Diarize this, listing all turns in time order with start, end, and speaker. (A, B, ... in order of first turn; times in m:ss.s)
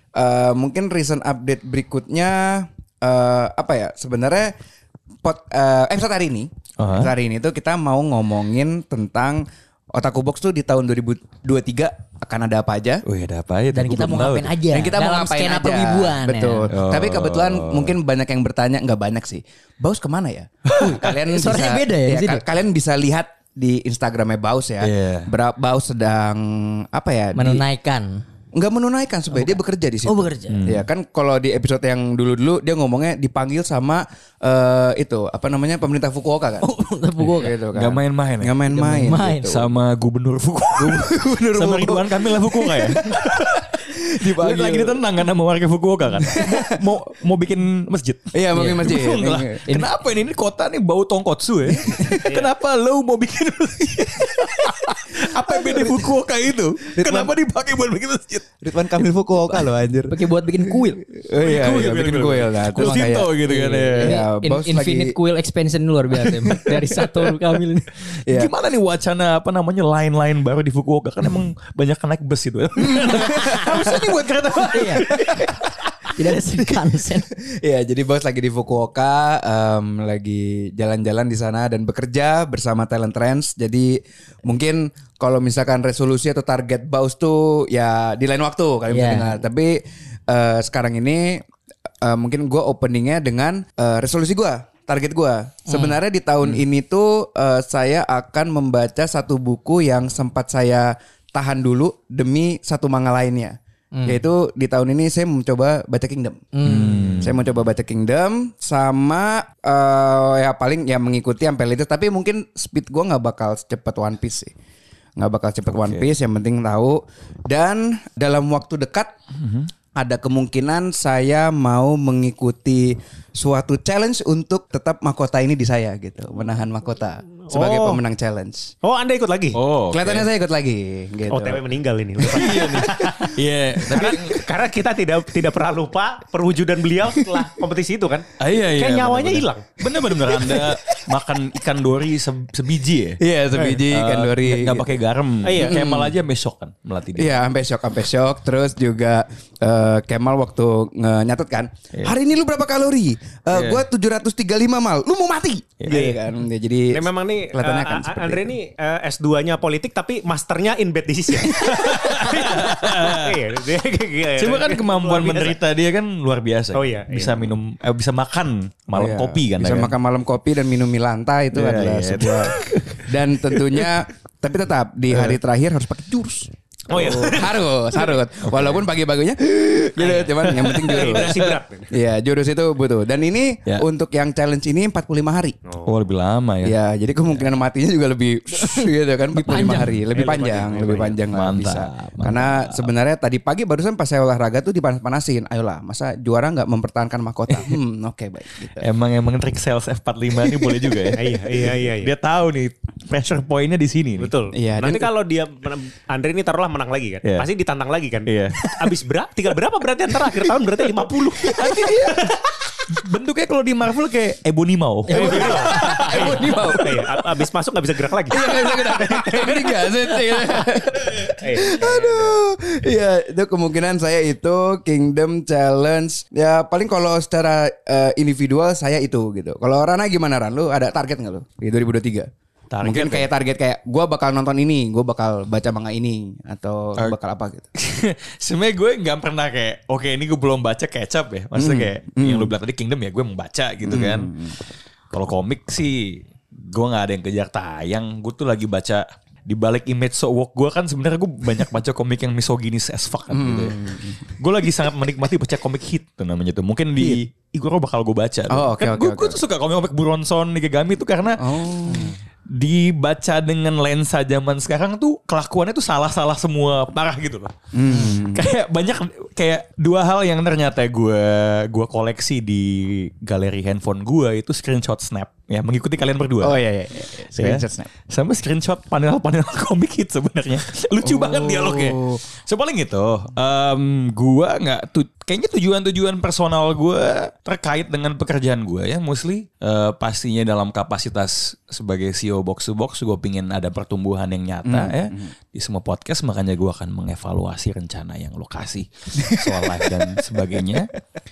0:00.1-0:04.5 A
0:05.2-0:13.0 A
0:06.8-0:07.1 B
0:13.0-0:14.5 B
0:13.7-0:16.7 C
0:14.7-0:27.6 A
0:16.7-0:17.9 B
0:20.7-0:21.0 B
0:21.0-0:22.4 C
0:24.8-0:25.3 B
0:27.3-0:28.2 C
0:28.5-0:36.7 A
0:29.3-0:30.6 C
0:30.5-0:30.9 B
0:36.6-0:37.6 C
0:37.3-0:39.6 A
0:37.7-0:38.6 B
0:38.7-0:39.6 C
0:39.4-0:58.4 B
0:40.8-0:45.0 A
0:46.2-0:46.8 A
0:48.3-0:49.6 A
0:48.5-0:49.0 C
0:51.7-0:52.3 A
0:52.2-0:52.5 D
0:54.5-0:56.1 A
0:56.9-0:57.3 A
0:58.6-1:03.4 A
1:00.1-1:01.0 C
1:01.4-1:04.2 B
1:02.8-1:08.0 C
1:04.0-1:05.2 A
1:06.2-1:07.3 B
1:08.1-1:16.1 B
1:08.2-1:08.5 A
1:12.8-1:15.6 A
1:13.1-1:13.6 C
1:14.7-1:15.1 C
1:16.1-1:17.3 C
1:17.3-1:31.4 A
1:28.9-1:29.4 C
1:32.0-1:54.5 A
1:35.7-1:36.0 C
1:43.9-1:44.2 C
1:46.5-1:47.1 C
1:46.6-1:47.4 B
1:55.2-1:59.1 A
1:59.3-1:59.7 B
1:59.9-2:08.7 A
2:07.5-2:08.0 D
2:08.8-2:09.6 D
2:09.5-2:10.3 B
2:09.9-2:11.6 A
2:11.3-2:13.3 D
2:12.2-2:14.4 B
2:12.2-2:13.3 A
2:13.9-2:19.7 D
2:13.9-2:14.2 A
2:18.4-2:27.3 B
2:20.0-2:20.8 A
2:23.2-2:24.9 A
2:25.4-2:25.9 D
2:25.5-2:26.2 A
2:27.1-2:38.5 A
2:33.5-2:33.8 B
2:35.8-2:36.2 B
2:36.9-2:45.6 D
2:41.6-2:43.4 B
2:44.4-2:49.9 B
2:46.7-2:47.5 D
2:48.9-3:05.6 A
2:51.5-2:53.9 B
2:56.9-2:57.7 D
2:58.4-2:58.7 B
3:00.0-3:01.9 D
3:00.5-3:01.6 B
3:05.6-3:06.0 D
3:05.8-3:06.7 B
3:06.6-3:18.9 A
3:09.4-3:09.9 C
3:09.5-3:09.9 B
3:10.1-3:11.2 D
3:11.2-3:12.9 B
3:18.8-3:24.3 B
3:21.1-3:22.1 D
3:24.2-3:32.4 D
3:24.5-3:25.1 A
3:28.2-3:28.9 B
3:31.4-3:32.4 B
3:31.4-3:32.3 A
3:32.9-3:37.2 B
3:35.1-3:39.9 D
3:35.1-3:36.9 A
3:38.3-3:52.3 A
3:41.4-3:42.4 D
3:52.7-3:53.3 B
3:52.8-3:57.7 A
3:57.8-4:04.3 B
4:01.5-4:02.5 A
4:03.8-4:04.5 A
4:05.1-4:13.8 B
4:13.3-4:14.3 A
4:14.4-4:36.6 B
4:18.5-4:19.4 A
4:21.4-4:22.2 A
4:27.7-4:28.5 A
4:36.4-4:37.9 A
4:37.3-5:00.9 B
4:41.0-4:42.2 A
4:54.6-4:55.3 A
4:59.2-5:00.6 A